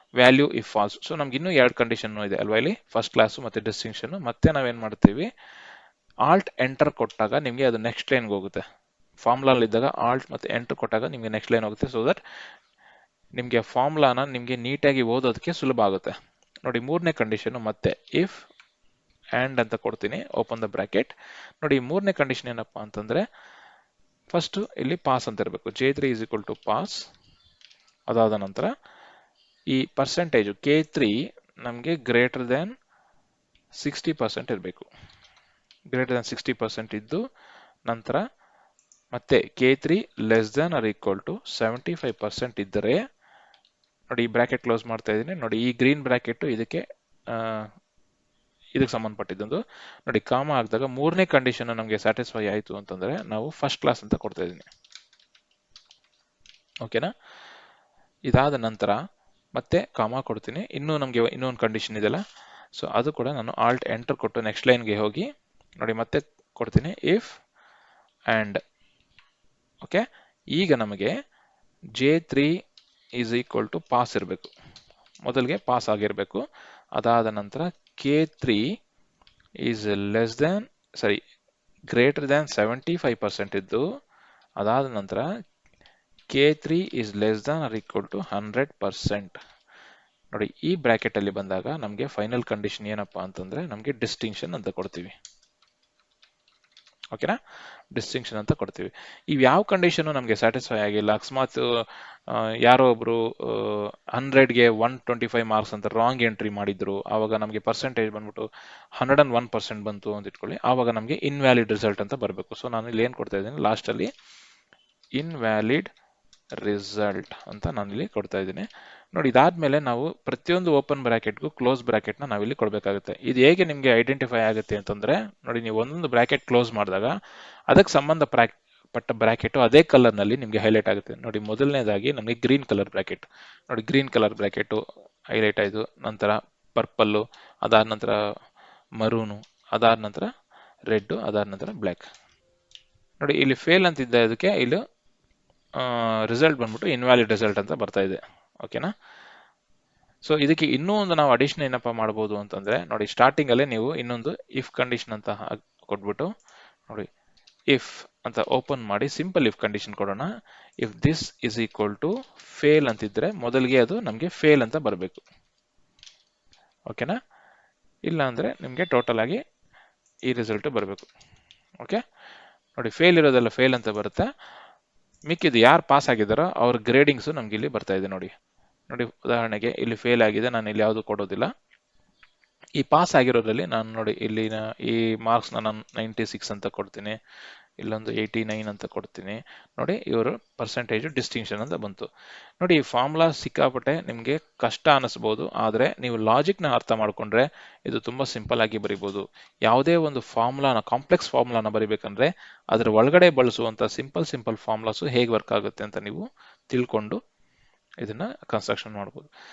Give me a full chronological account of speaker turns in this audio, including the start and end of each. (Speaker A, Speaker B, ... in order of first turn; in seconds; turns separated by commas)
Speaker A: 0.2-5.3, Speaker A: 6.3-8.6, Speaker A: 9.2-12.2, Speaker A: 13.4-18.4, Speaker A: 19.4-23.2, Speaker A: 24.3-27.0, Speaker A: 28.1-28.7, Speaker A: 29.7-32.7, Speaker A: 33.8-34.9, Speaker A: 35.9-37.2, Speaker A: 37.9-38.2, Speaker A: 39.1-43.0, Speaker A: 44.1-47.6, Speaker A: 48.8-54.7, Speaker A: 58.3-59.0, Speaker A: 59.5-62.2, Speaker A: 62.8-65.3, Speaker A: 65.8-67.3, Speaker A: 68.3-68.6, Speaker A: 70.6-71.1, Speaker A: 72.0-72.5, Speaker A: 73.2-74.5, Speaker A: 75.2-76.4, Speaker A: 77.0-78.6, Speaker A: 79.6-81.2, Speaker A: 81.9-83.8, Speaker A: 84.6-85.2, Speaker A: 86.3-89.4, Speaker A: 90.3-95.1, Speaker A: 97.1-97.4, Speaker A: 97.9-101.7, Speaker A: 102.3-114.1, Speaker A: 115.2-115.9, Speaker A: 116.6-127.1, Speaker A: 127.7-134.8, Speaker A: 135.3-138.2, Speaker A: 139.0-140.3, Speaker A: 140.9-142.1, Speaker A: 143.2-144.8, Speaker A: 145.8-148.9, Speaker A: 150.2-156.3, Speaker A: 157.7-160.3, Speaker A: 160.8-165.2, Speaker A: 166.9-167.2, Speaker A: 168.1-169.4, Speaker A: 170.3-171.1, Speaker A: 172.8-174.3, Speaker A: 175.3-178.3, Speaker A: 178.9-181.5, Speaker A: 182.8-187.2, Speaker A: 187.8-192.1, Speaker A: 192.6-207.2, Speaker A: 208.0-209.3